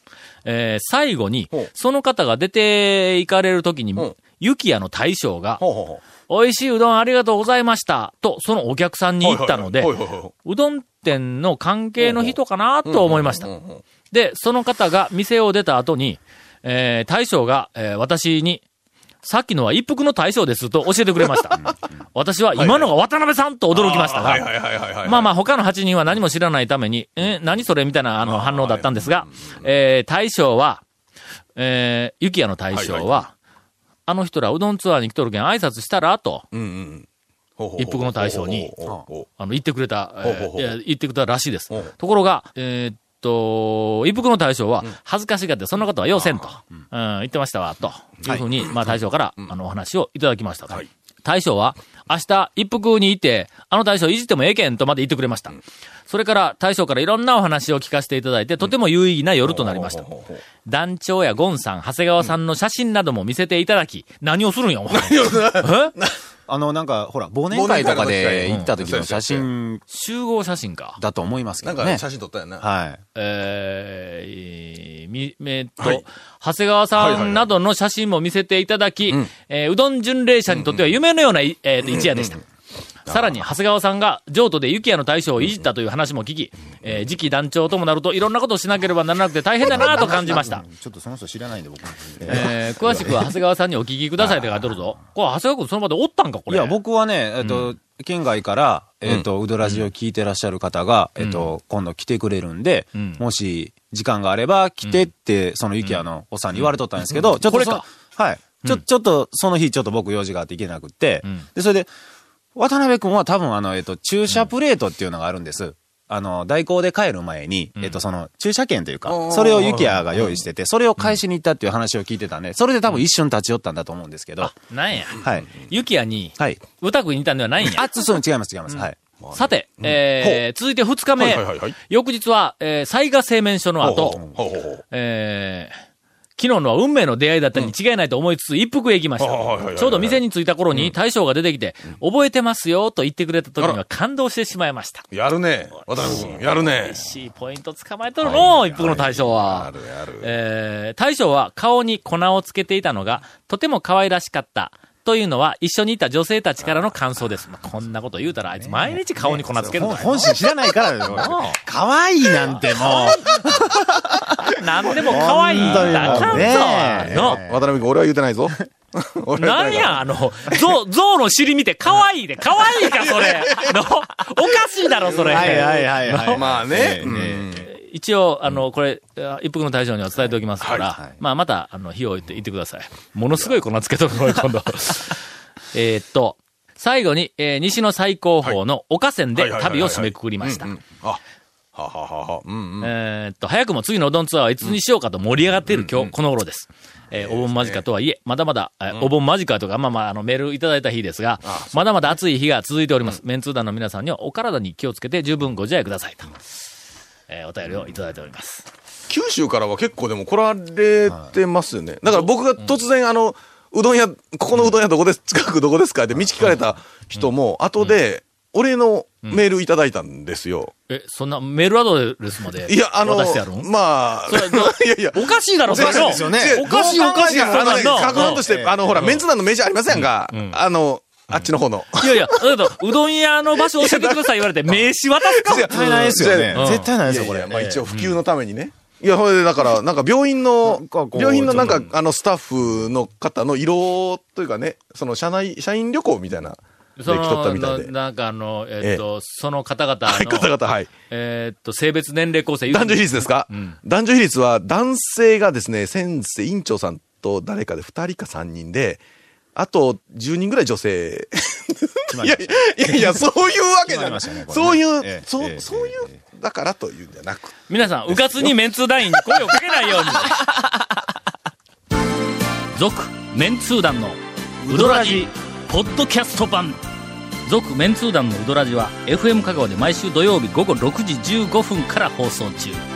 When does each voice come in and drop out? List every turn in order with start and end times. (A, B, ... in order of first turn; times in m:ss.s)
0:00.4-0:05.6 A
0:05.6-0:06.0 B
0:06.3-0:13.5 A
0:09.2-0:10.3 B
0:12.0-0:13.8 B
0:14.1-0:18.6 A
0:19.2-0:30.8 A
0:22.5-0:22.9 B
0:23.7-0:25.3 B
0:28.2-0:29.6 B
0:31.6-0:33.3 A
0:32.7-0:33.2 B
0:34.1-0:36.4 A
0:36.5-0:37.1 B
0:37.6-0:39.3 B
0:37.8-0:38.7 A
0:39.3-1:00.1 A
0:40.2-0:40.7 B
0:46.1-0:46.4 B
0:59.4-1:00.4 B
1:00.6-1:05.9 A
1:04.9-1:06.2 B
1:06.5-1:09.8 C
1:07.5-1:09.5 B
1:08.4-1:08.7 A
1:09.9-1:11.0 A
1:11.0-1:12.0 C
1:11.6-1:12.6 B
1:12.6-1:13.0 C
1:13.1-1:22.4 A
1:16.9-1:17.5 B
1:20.5-1:20.9 B
1:21.8-1:22.3 B
1:23.0-1:30.6 A
1:29.7-1:33.2 C
1:32.2-1:36.8 A
1:36.5-1:51.9 C
1:37.4-1:37.7 A
1:41.2-1:41.5 A
1:43.0-1:43.2 A
1:44.8-1:45.1 A
1:47.4-1:47.8 A
1:52.5-2:04.6 C
1:59.0-2:00.4 B
2:04.4-2:07.8 A
2:05.2-2:05.5 C
2:07.7-2:09.0 C
2:08.7-2:14.2 A
2:09.2-2:10.4 B
2:11.2-2:11.7 B
2:13.8-2:14.8 B
2:14.9-2:15.7 A
2:16.4-2:25.0 A
2:19.2-2:20.2 B
2:25.1-2:27.0 B
2:25.8-2:40.3 A
2:28.2-2:30.3 B
2:36.6-2:36.9 B
2:38.6-2:47.6 C
2:39.8-2:40.2 B
2:41.0-2:41.6 A
2:42.4-2:43.5 A
2:44.5-2:47.4 A
2:45.0-2:50.1 B
2:49.4-2:56.6 A
2:52.8-2:53.7 B
2:55.0-2:55.7 B
2:55.1-2:57.6 C
2:56.3-2:57.7 B
2:57.6-3:05.2 A
3:00.6-3:00.9 B
3:05.7-3:10.7 A
3:09.4-3:11.2 B
3:11.8-3:12.9 B
3:12.8-3:26.3 A
3:15.7-3:16.1 B
3:17.1-3:17.8 B
3:21.4-3:21.7 B
3:27.3-3:28.6 A
3:29.1-3:40.7 B
3:32.1-3:32.7 A
3:40.9-3:43.7 A
3:42.6-3:52.6 B
3:44.2-3:48.4 A
3:45.7-3:49.2 C
3:48.9-3:49.2 A
3:49.9-3:50.6 A
3:51.3-3:55.8 A
3:53.6-4:07.9 B
3:55.5-3:57.6 C
3:56.5-3:56.9 A
3:57.5-3:58.2 A
4:00.6-4:01.8 C
4:01.5-4:01.8 A
4:07.0-4:13.8 A
4:10.0-4:10.9 B
4:12.7-4:19.0 B
4:19.5-4:27.5 B
4:22.1-4:23.2 C
4:23.8-4:26.1 C
4:27.7-4:30.5 A
4:28.1-4:28.6 B
4:29.1-4:29.6 B
4:30.6-4:30.9 C
4:32.7-4:36.8 A
4:34.6-4:35.3 C
4:37.4-4:42.8 A